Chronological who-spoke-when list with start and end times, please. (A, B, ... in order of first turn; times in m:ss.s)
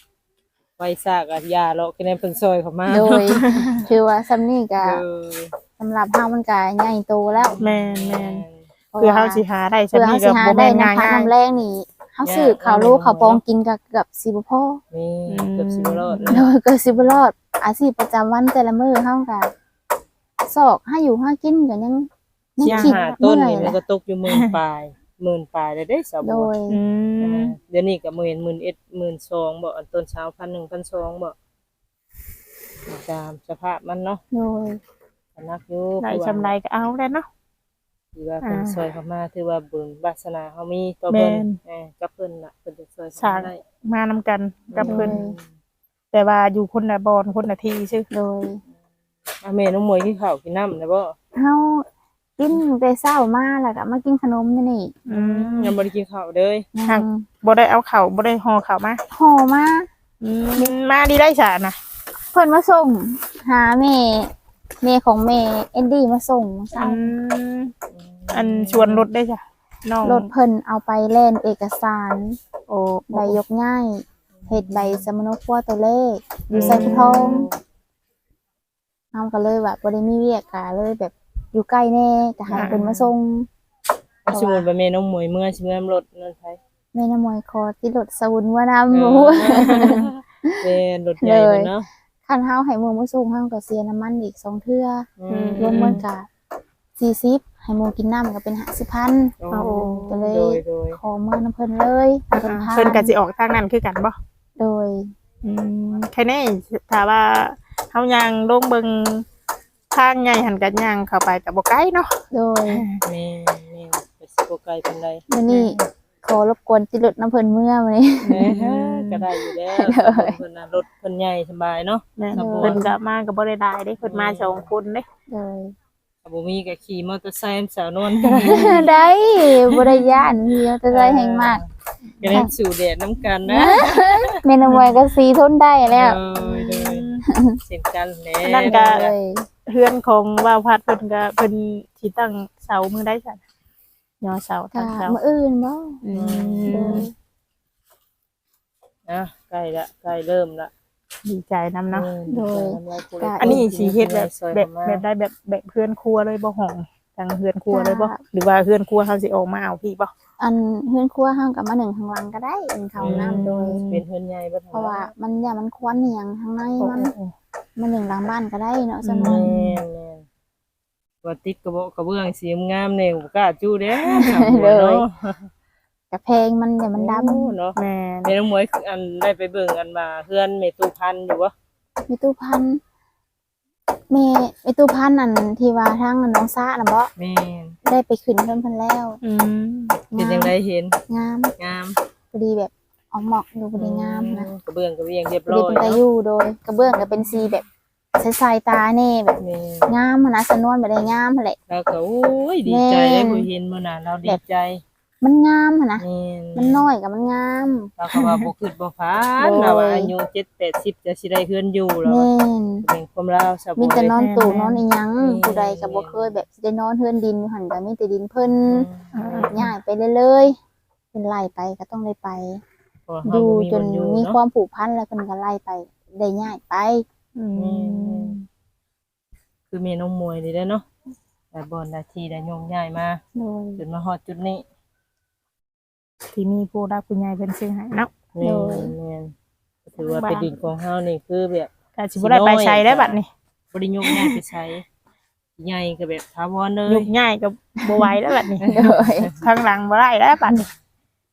0:00.8-0:03.5 A
0:02.9-0:05.0 B
0:03.4-0:03.8 C
0:04.8-0:05.6 A
0:05.8-0:07.6 B
0:07.3-0:08.7 A
0:07.6-0:08.4 C
0:08.9-0:14.8 B
0:09.0-0:11.3 C
0:12.2-0:13.4 A
0:14.9-0:16.5 A
0:15.3-0:16.5 C
0:16.3-0:19.5 B
0:20.4-0:23.8 B
0:22.6-0:26.5 A
0:22.6-0:23.1 C
0:24.3-0:24.5 C
0:26.2-0:26.8 B
0:26.7-0:27.5 C
0:27.2-0:31.3 A
0:32.9-0:34.2 A
0:34.3-0:34.8 B
0:35.3-0:36.5 A
0:36.0-0:37.2 C
0:38.1-0:43.6 A
0:38.4-0:38.8 C
0:41.1-0:41.6 C
0:43.2-0:45.2 C
0:44.7-0:45.4 A
0:44.8-0:45.4 B
0:46.1-0:48.0 C
0:48.1-0:48.6 B
0:49.4-0:51.2 A
0:51.3-0:51.8 B
0:52.4-0:55.7 B
0:55.1-0:55.8 C
0:55.6-0:56.7 A
0:56.7-0:57.3 B
0:56.8-0:59.0 C
0:59.1-0:59.9 B
1:00.2-1:01.8 C
1:02.3-1:07.2 B
1:06.7-1:07.7 C
1:07.9-1:09.0 A
1:08.3-1:10.3 C
1:10.0-1:12.4 B
1:12.7-1:13.4 C
1:13.1-1:17.5 B
1:14.4-1:15.0 A
1:16.5-1:17.5 C
1:16.5-1:17.5 A
1:19.1-1:23.5 B
1:22.5-1:22.9 C
1:22.5-1:23.1 A
1:24.3-1:26.6 A
1:24.3-1:24.7 B
1:26.9-1:30.6 B
1:28.9-1:31.9 A
1:29.6-1:30.0 C
1:31.2-1:31.7 B
1:32.2-1:36.3 B
1:35.2-1:36.0 A
1:35.3-1:36.0 C
1:37.0-1:39.4 B
1:39.4-1:41.0 A
1:39.5-1:40.2 C
1:39.9-1:43.2 B
1:42.3-1:44.2 C
1:44.6-1:45.1 B
1:45.4-1:49.2 C
1:49.9-1:52.1 C
1:52.3-1:52.8 B
1:53.0-1:55.2 A
1:55.3-1:58.5 B
1:55.5-1:55.8 C
1:58.3-2:02.8 A
1:58.3-1:59.2 C
1:59.4-2:00.4 B
2:02.2-2:05.0 C
2:02.3-2:02.9 B
2:04.0-2:04.7 A
2:05.3-2:05.7 B
2:06.2-2:08.9 A
2:08.3-2:08.9 C
2:08.3-2:11.6 B
2:09.6-2:10.0 A
2:10.9-2:11.7 A
2:12.0-2:12.4 C
2:12.2-2:14.4 A
2:12.2-2:12.5 B
2:13.4-2:16.2 B
2:14.6-2:15.0 C
2:15.9-2:17.1 A
2:16.4-2:17.2 C
2:17.2-2:17.6 B
2:17.6-2:19.1 A
2:18.4-2:19.0 C
2:18.6-2:19.5 B
2:19.7-2:23.4 C
2:24.2-2:25.2 C
2:24.7-2:26.0 B
2:26.0-2:27.1 C
2:26.1-2:27.0 A
2:26.6-2:27.1 B
2:29.1-2:30.7 A
2:31.2-2:32.1 C
2:31.9-2:35.0 A
2:32.3-2:33.6 B
2:33.4-2:40.1 C
2:37.7-2:38.2 B
2:40.4-2:43.8 B
2:43.0-2:45.1 A
2:43.0-2:44.0 C
2:44.7-2:47.1 B
2:46.8-2:47.3 C
2:47.8-2:49.5 B
2:49.0-2:49.8 C
2:49.2-2:50.2 A
2:51.2-2:55.5 A
2:54.0-2:55.0 B
2:56.1-2:57.6 B
2:56.9-3:01.5 A
2:57.8-2:58.3 C
3:02.1-3:02.8 B
3:04.1-3:07.1 B
3:07.2-3:07.8 A
3:07.8-3:09.2 B
3:09.2-3:10.0 C
3:10.1-3:10.6 B
3:10.1-3:11.0 A
3:11.1-3:11.5 B
3:11.6-3:12.0 A
3:12.3-3:14.5 B
3:13.8-3:16.0 A
3:15.5-3:17.6 B
3:18.2-3:21.6 B
3:19.4-3:19.9 A
3:21.7-3:24.8 A
3:22.6-3:23.5 B
3:25.2-3:27.9 B
3:26.0-3:26.9 A
3:28.0-3:32.3 A
3:28.1-3:28.5 C
3:29.4-3:30.1 B
3:32.0-3:32.9 B
3:32.8-3:34.1 A
3:33.8-3:38.9 B
3:34.1-3:34.8 C
3:35.2-3:36.3 A
3:38.6-3:39.6 A
3:39.1-3:39.7 C
3:39.5-3:40.6 B
3:41.1-3:42.6 B
3:43.1-3:44.4 A
3:43.2-3:47.0 B
3:47.4-3:48.4 C
3:47.6-3:48.4 A
3:49.7-3:50.8 A
3:51.5-3:53.2 A
3:53.3-3:53.8 B
3:53.8-3:54.6 A
3:56.3-3:58.1 C
3:58.3-3:59.3 A
3:58.4-3:58.9 B
3:59.9-4:03.2 A
4:00.0-4:00.5 C
4:02.0-4:03.3 C
4:03.7-4:04.8 A
4:05.6-4:07.1 A
4:06.8-4:08.8 C
4:07.8-4:09.3 B
4:08.6-4:09.4 A
4:09.4-4:10.7 C